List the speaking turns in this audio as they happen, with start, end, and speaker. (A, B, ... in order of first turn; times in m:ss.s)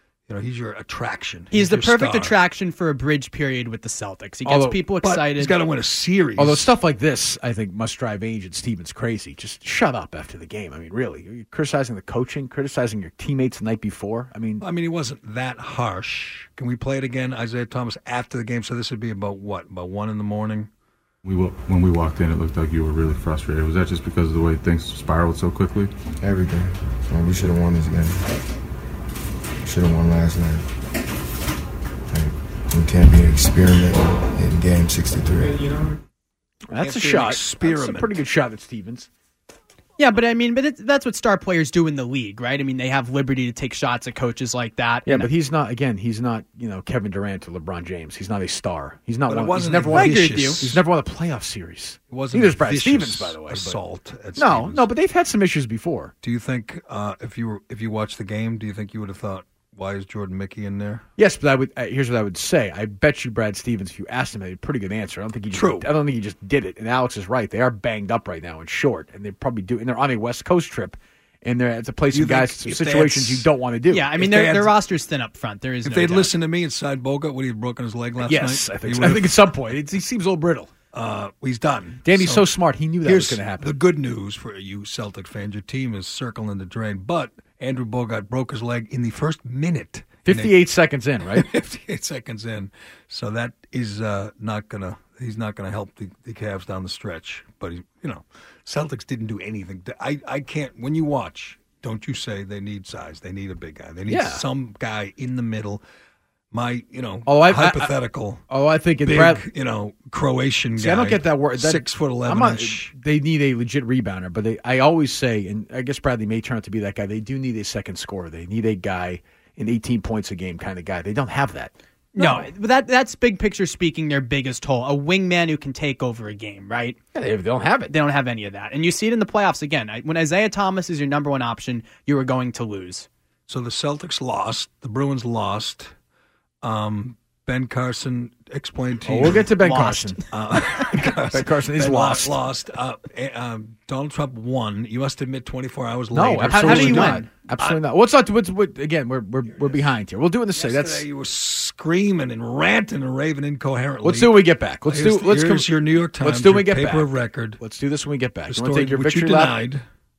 0:00.3-0:02.4 A
0:01.5-0:05.6 B
0:04.4-0:04.8 C
0:05.0-0:06.7 A
0:06.4-0:14.6 C
0:14.6-0:20.7 A
0:21.2-0:25.9 D
0:26.2-0:28.2 E
0:29.6-0:30.6 E
0:32.1-0:35.6 E
0:36.7-0:39.1 C
0:36.8-0:38.2 A
0:40.0-0:45.3 B
0:45.0-0:53.8 C
0:49.3-0:50.8 A
0:49.9-0:50.6 B
0:52.1-0:54.9 A
0:54.3-0:56.1 C
0:56.2-1:01.0 A
1:01.2-1:14.1 C
1:05.5-1:05.9 A
1:12.1-1:13.5 A
1:13.9-1:16.3 B
1:14.1-1:14.7 A
1:15.8-1:19.3 A
1:18.2-1:20.7 C
1:20.9-1:22.5 A
1:22.0-1:23.7 C
1:23.0-1:30.6 A
1:30.2-1:31.4 C
1:31.3-1:45.8 A
1:44.1-1:44.4 C
1:46.5-1:48.4 A
1:47.2-1:49.4 C
1:49.0-1:52.9 A
1:50.8-2:02.5 C
2:02.1-2:07.0 B
2:07.1-2:08.0 C
2:07.9-2:13.1 B
2:13.5-2:15.9 A
2:16.6-2:19.5 A
2:19.0-2:20.2 C
2:19.6-2:20.2 B
2:20.3-2:27.8 A
2:21.1-2:22.4 C
2:26.1-2:31.1 C
2:26.4-2:27.3 B
2:29.6-2:29.9 A
2:30.5-2:37.6 A
2:34.0-2:39.6 C
2:38.5-2:39.8 A